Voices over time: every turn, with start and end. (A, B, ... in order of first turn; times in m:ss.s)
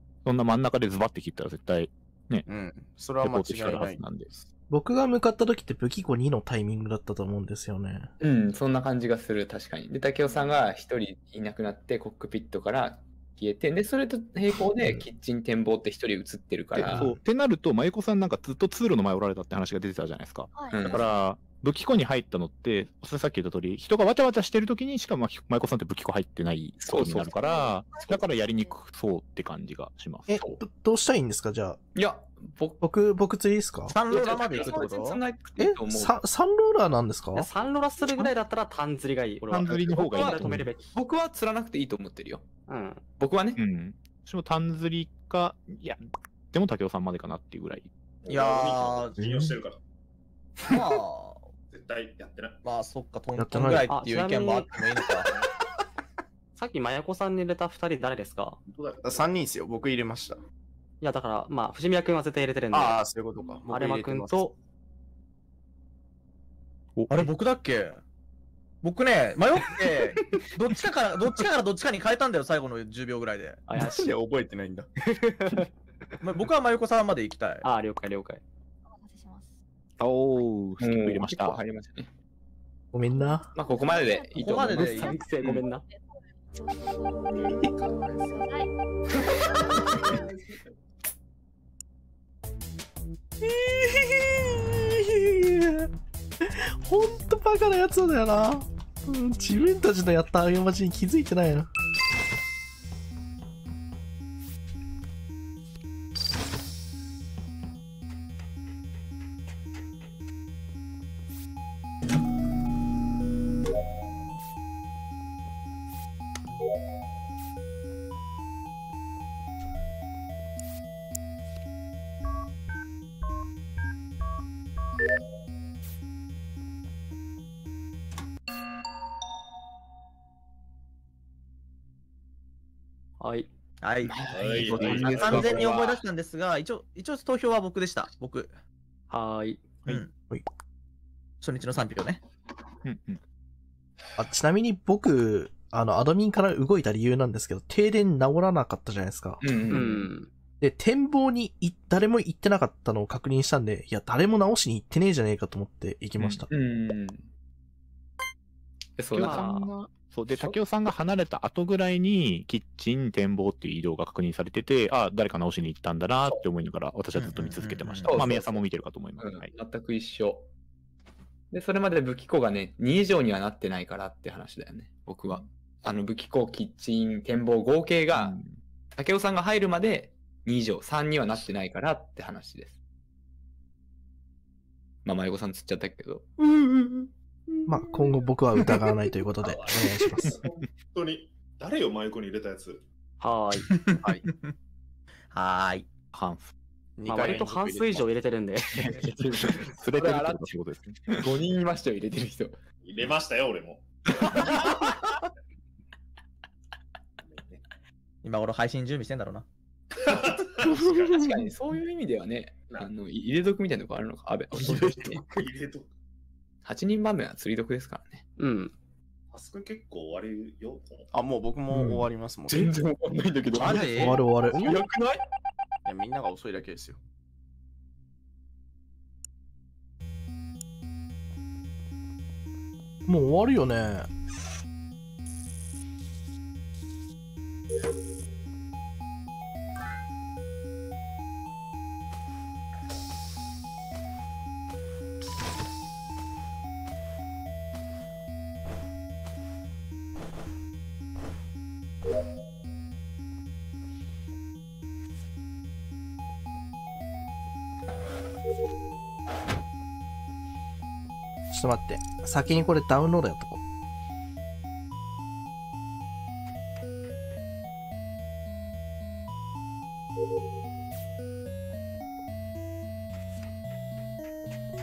0:00.2-0:02.5 A
0:02.5-0:04.5 B
0:03.2-0:04.3 A
0:04.7-0:08.1 C
0:08.2-0:17.1 D
0:10.2-0:10.7 E
0:16.8-0:30.4 A
0:16.8-0:17.1 C
0:20.5-0:21.3 E
0:20.7-0:21.1 D
0:26.8-0:27.4 D
0:27.3-0:28.8 E
0:30.3-0:31.8 C
0:32.0-0:32.8 D
0:32.8-0:34.0 C
0:33.9-0:35.2 F
0:34.1-0:36.2 D
0:35.6-0:37.5 C
0:37.4-0:40.9 G
0:39.5-0:40.7 A
0:40.1-0:40.4 F
0:40.9-0:42.5 D
0:42.7-0:43.0 G
0:43.2-0:43.6 D
0:43.6-0:46.0 A
0:46.5-0:47.9 A
0:48.2-0:49.8 H
0:48.3-0:49.3 F
0:49.2-0:49.5 C
0:50.7-0:51.5 F
0:51.7-0:52.6 H
0:52.6-0:55.4 F
0:53.4-0:53.9 C
0:53.9-0:54.8 G
0:56.6-0:58.6 G
0:58.7-0:59.3 H
0:59.0-1:00.4 B
1:01.0-1:03.0 G
1:02.7-1:04.5 B
1:03.7-1:04.6 G
1:07.0-1:07.3 A
1:07.1-1:08.0 F
1:08.8-1:13.6 F
1:09.7-1:10.5 G
1:13.7-1:14.1 G
1:13.8-1:14.9 B
1:15.0-1:15.7 G
1:16.2-1:17.7 F
1:17.6-1:18.4 G
1:18.9-1:19.6 E
1:20.0-1:21.6 A
1:20.8-1:22.1 D
1:22.9-1:23.5 C
1:23.6-1:24.8 D
1:23.6-1:24.4 E
1:24.4-1:25.1 F
1:24.4-1:25.8 G
1:25.0-1:28.7 E
1:29.5-1:30.3 E
1:30.0-1:30.6 D
1:33.4-1:35.9 C
1:36.5-1:41.7 C
2:13.2-2:13.5 G
2:13.8-2:18.5 F
2:14.0-2:15.7 D
2:14.3-2:16.0 H
2:19.1-2:19.7 G
2:21.4-2:22.2 F
2:22.8-2:23.2 A
2:24.2-2:29.4 C
2:29.4-2:30.1 D
2:29.7-2:30.3 G
2:30.6-2:36.5 C
2:36.2-2:36.4 A
2:36.5-2:37.3 D
2:39.0-2:39.4 D
2:39.1-2:49.5 A
2:39.2-2:39.7 G
2:47.2-2:48.2 F
2:48.0-2:50.5 D
2:51.5-2:58.4 D
2:58.1-2:58.5 A
2:58.9-3:02.8 D
3:05.0-3:07.0 D
3:07.7-3:10.4 C
3:09.4-3:12.8 H
3:13.2-3:13.7 G
3:13.6-3:14.5 F
3:15.3-3:15.9 F
3:16.1-3:16.5 A
3:17.0-3:18.1 B
3:17.1-3:19.0 G
3:18.8-3:20.6 D
3:19.7-3:21.3 A
3:21.1-3:22.6 D
3:22.8-3:24.4 H
3:27.2-3:27.6 H
3:28.2-3:29.5 F
3:30.1-3:31.3 H
3:31.1-3:35.4 D
3:34.8-3:35.9 H
3:36.6-3:38.2 D
3:38.4-3:38.7 G
3:39.3-3:41.1 H
3:41.1-3:42.7 B
3:42.5-3:45.2 D
3:43.5-3:44.2 F
3:44.0-3:44.7 C
3:44.4-3:44.8 G
3:45.8-3:47.0 B
3:53.1-3:54.1 C
4:21.5-4:23.6 C